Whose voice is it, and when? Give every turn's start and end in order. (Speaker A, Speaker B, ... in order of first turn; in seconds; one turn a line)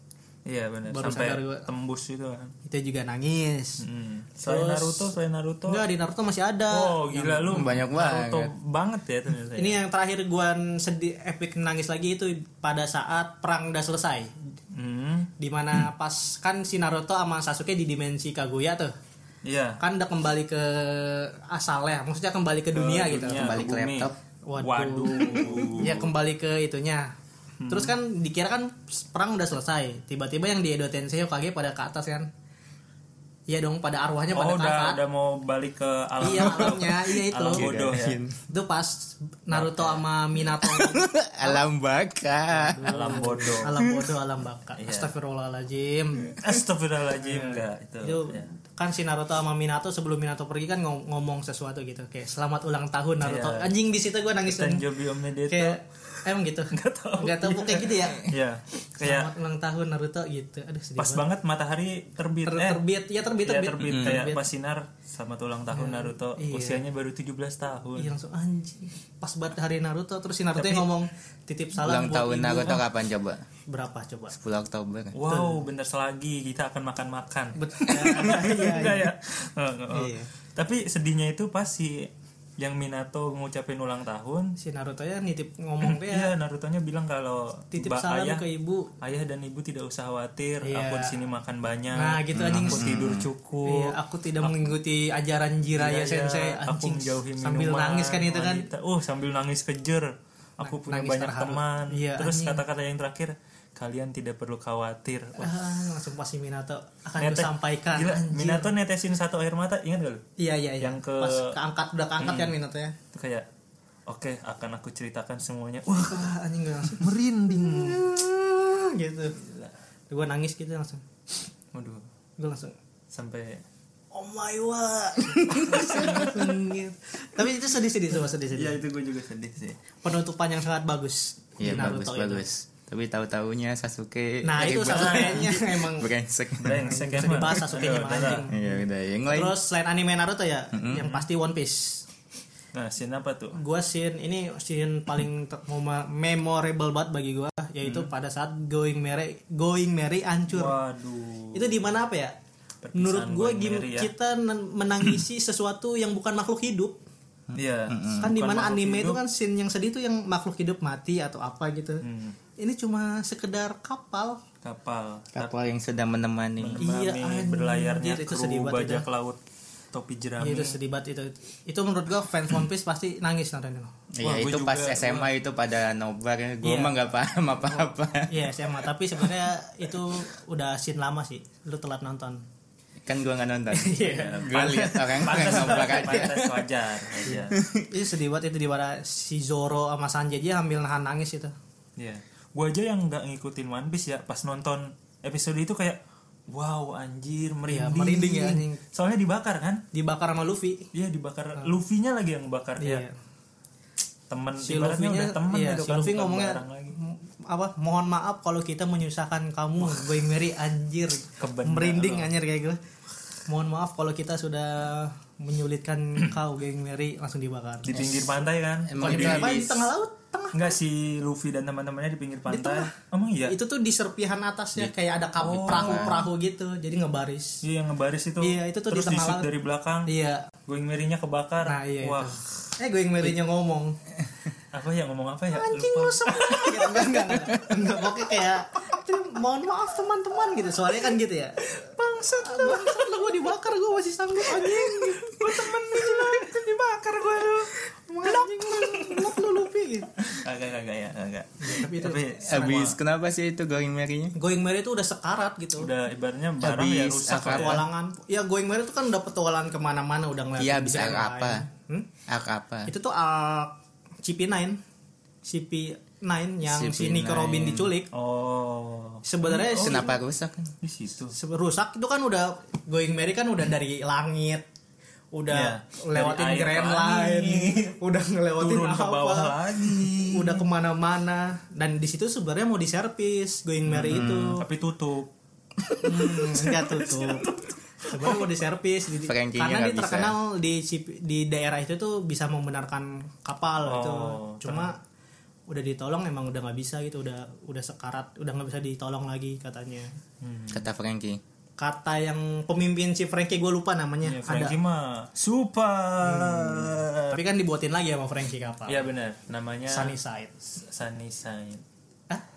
Speaker A: 0.5-2.5
Speaker B: 0.9-1.7
Speaker B: 2.6-3.8
Speaker A: 3.8-5.8
Speaker B: 4.4-5.1
Speaker B: 5.7-7.7
Speaker A: 6.7-9.8
Speaker C: 7.5-8.5
Speaker B: 9.6-14.3
Speaker A: 14.7-15.3
Speaker B: 15.4-18.9
Speaker A: 19.4-19.8
Speaker B: 19.8-23.5
Speaker A: 22.7-26.1
Speaker C: 23.3-24.1
Speaker B: 24.5-27.1
Speaker C: 25.4-25.8
Speaker A: 27.6-27.9
Speaker B: 27.7-32.3
Speaker B: 33.5-35.0
Speaker A: 34.3-38.2
Speaker B: 36.2-37.7
Speaker C: 36.2-36.9
Speaker C: 37.5-38.4
Speaker B: 38.5-41.6
Speaker A: 39.5-40.1
Speaker C: 40.6-43.9
Speaker B: 42.5-46.4
Speaker A: 42.9-43.8
Speaker A: 44.8-45.1
Speaker A: 46.3-48.5
Speaker B: 47.2-54.9
Speaker A: 53.2-53.7
Speaker A: 54.5-56.2
Speaker B: 55.5-58.3
Speaker A: 56.7-59.3
Speaker B: 59.0-61.2
Speaker A: 61.0-62.8
Speaker B: 62.5-64.4
Speaker A: 63.5-68.1
Speaker C: 63.8-64.3
Speaker B: 65.7-66.8
Speaker B: 68.0-72.8
Speaker A: 70.6-70.9
Speaker C: 71.8-73.4
Speaker B: 73.7-74.3
Speaker C: 74.3-75.2
Speaker A: 75.1-84.5
Speaker B: 75.3-75.5
Speaker B: 77.6-79.2
Speaker B: 79.9-80.3
Speaker B: 84.6-86.3
Speaker A: 85.8-88.4
Speaker B: 87.7-88.9
Speaker A: 89.0-94.7
Speaker B: 90.6-91.2
Speaker B: 91.9-92.9
Speaker C: 92.3-93.3
Speaker B: 93.7-98.7
Speaker A: 95.8-100.1
Speaker A: 100.6-105.7
Speaker B: 100.6-102.6
Speaker B: 105.4-108.7
Speaker A: 107.2-110.2
Speaker B: 110.4-113.0
Speaker A: 110.8-111.6
Speaker A: 112.2-112.5
Speaker A: 113.1-113.5
Speaker A: 114.1-116.3
Speaker B: 116.1-119.3
Speaker A: 116.9-118.0
Speaker A: 119.3-119.7
Speaker B: 120.1-121.0
Speaker A: 121.7-122.0
Speaker B: 122.4-122.8
Speaker A: 123.1-123.6
Speaker B: 124.1-128.8
Speaker C: 125.4-126.2
Speaker A: 125.5-126.6
Speaker A: 128.6-129.8
Speaker B: 130.0-132.4
Speaker C: 131.6-137.5
Speaker B: 134.4-136.1
Speaker A: 134.6-135.6
Speaker A: 136.6-138.5
Speaker B: 136.8-142.1
Speaker C: 138.2-139.6
Speaker C: 140.7-141.1
Speaker A: 142.7-143.6
Speaker B: 143.6-150.8
Speaker A: 150.5-151.9
Speaker B: 151.5-152.3
Speaker A: 152.8-154.1
Speaker B: 153.0-157.0
Speaker C: 157.5-158.3
Speaker A: 157.6-159.2
Speaker B: 158.2-162.0
Speaker A: 162.0-162.4
Speaker B: 162.6-164.4
Speaker A: 164.6-165.5
Speaker C: 165.3-166.9
Speaker A: 166.6-169.4
Speaker B: 166.8-169.0
Speaker A: 169.9-170.8
Speaker B: 170.4-173.9
Speaker C: 174.1-178.5
Speaker A: 174.2-175.3
Speaker B: 176.6-176.9
Speaker B: 178.3-182.4
Speaker C: 183.1-186.6
Speaker B: 183.7-186.2
Speaker A: 184.0-187.6
Speaker B: 187.3-191.5
Speaker C: 187.5-187.9
Speaker A: 192.0-199.8
Speaker B: 197.7-198.8
Speaker B: 199.9-200.9
Speaker A: 200.9-203.0
Speaker B: 202.8-203.1
Speaker A: 204.3-207.0
Speaker B: 204.6-212.8
Speaker A: 211.4-212.3
Speaker B: 213.5-218.1
Speaker A: 217.8-219.8
Speaker C: 217.9-218.4
Speaker C: 218.9-219.9
Speaker B: 219.0-220.7
Speaker A: 220.5-223.6
Speaker B: 222.5-222.9
Speaker B: 223.5-227.6
Speaker C: 224.8-226.3
Speaker A: 225.4-226.2
Speaker A: 227.6-230.1
Speaker B: 228.4-229.5
Speaker B: 230.1-230.5
Speaker A: 230.7-232.4
Speaker B: 231.6-234.0
Speaker A: 234.7-237.6
Speaker B: 235.5-250.1
Speaker C: 237.5-237.8
Speaker A: 241.9-243.1
Speaker A: 244.6-246.6
Speaker A: 248.8-249.3
Speaker A: 250.2-253.0
Speaker B: 251.6-252.3
Speaker C: 252.4-254.3
Speaker B: 254.3-255.9
Speaker A: 255.8-257.8
Speaker C: 256.6-257.8
Speaker B: 257.4-262.1
Speaker C: 260.6-261.7
Speaker C: 262.3-262.9
Speaker B: 262.9-264.8
Speaker B: 265.4-268.1
Speaker C: 266.6-267.8
Speaker A: 268.1-270.1
Speaker B: 269.2-270.2
Speaker C: 269.8-270.7
Speaker A: 270.8-271.4
Speaker B: 271.3-274.6
Speaker B: 275.3-284.6
Speaker A: 275.5-277.9
Speaker A: 278.6-280.6
Speaker A: 283.9-285.3
Speaker C: 284.1-284.5
Speaker A: 285.9-288.5
Speaker B: 286.0-287.5
Speaker B: 288.0-295.0
Speaker C: 289.2-290.4
Speaker A: 293.8-294.9
Speaker B: 295.7-300.1
Speaker A: 300.4-300.9
Speaker C: 300.7-301.4
Speaker B: 301.8-304.8
Speaker A: 304.2-307.4
Speaker B: 306.2-309.1
Speaker A: 308.9-311.8
Speaker B: 309.9-310.5